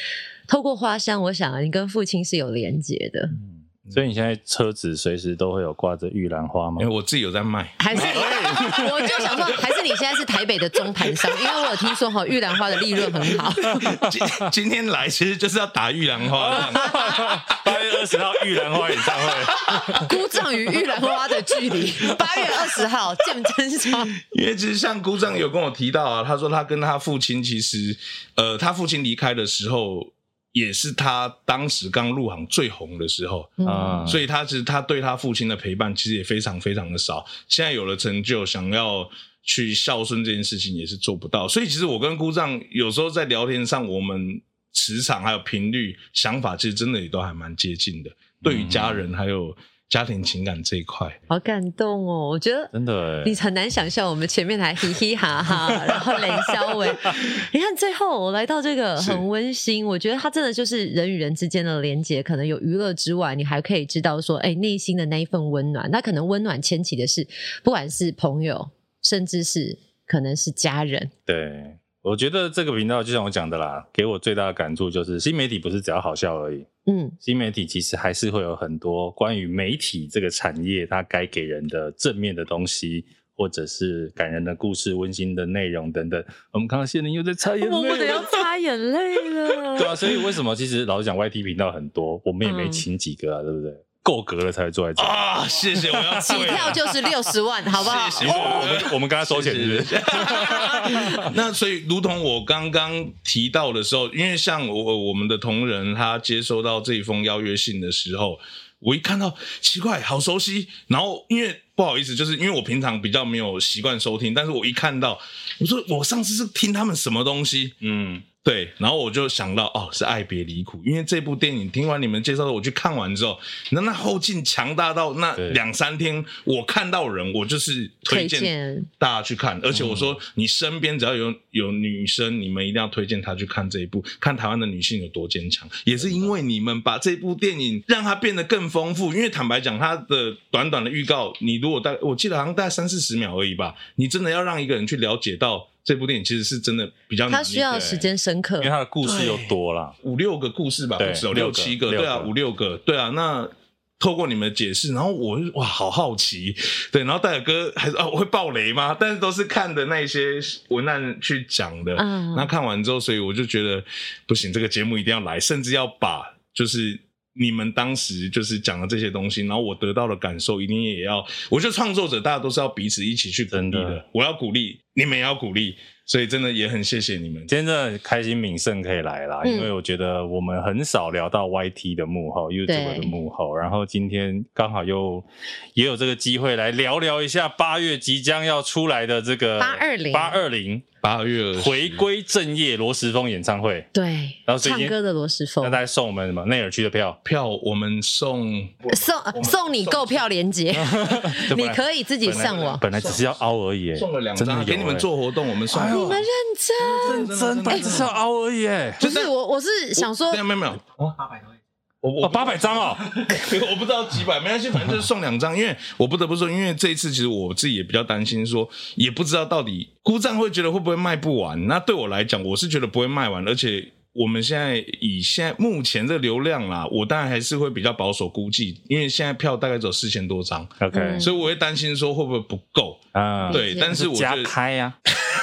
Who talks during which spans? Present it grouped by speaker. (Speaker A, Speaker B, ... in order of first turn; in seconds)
Speaker A: 0.5-3.4, 7.8-14.0, 16.7-17.3, 19.9-24.1, 33.6-34.1, 51.3-52.7, 53.2-71.1, 76.9-77.2, 87.6-90.2, 92.4-92.8, 96.1-98.8, 128.1-128.9, 147.3-148.7, 162.0-162.5, 179.4-179.7, 182.7-183.2, 189.6-190.4, 193.9-195.8, 198.9-202.8, 205.8-208.0, 209.0-210.4, 230.9-231.3, 233.4-233.9
Speaker B: 3.3-6.8, 7.9-9.4, 13.8-14.5, 16.4-20.1, 33.6-34.2, 48.4-49.0, 52.7-53.3, 71.3-76.7, 77.2-88.5, 89.7-97.0, 97.8-101.3, 117.8-118.2, 129.7-130.1, 136.0-136.3, 147.7-148.0, 148.6-149.9, 151.0-152.3, 173.5-174.0, 177.5-190.9, 191.6-193.9, 194.4-194.9, 195.6-197.2, 200.7-205.1, 205.7-206.2, 207.0-209.0, 212.2-213.0, 230.8-231.3, 233.1-235.0
Speaker C: 6.8-8.3, 13.2-17.7, 19.1-20.1, 24.2-51.2, 95.0-96.8, 97.8-117.8, 118.4-147.9, 149.0-177.5, 191.0-192.0, 197.2-200.2, 202.3-203.2, 203.9-206.2, 206.8-208.1, 209.0-209.3, 209.9-211.3, 212.0-234.5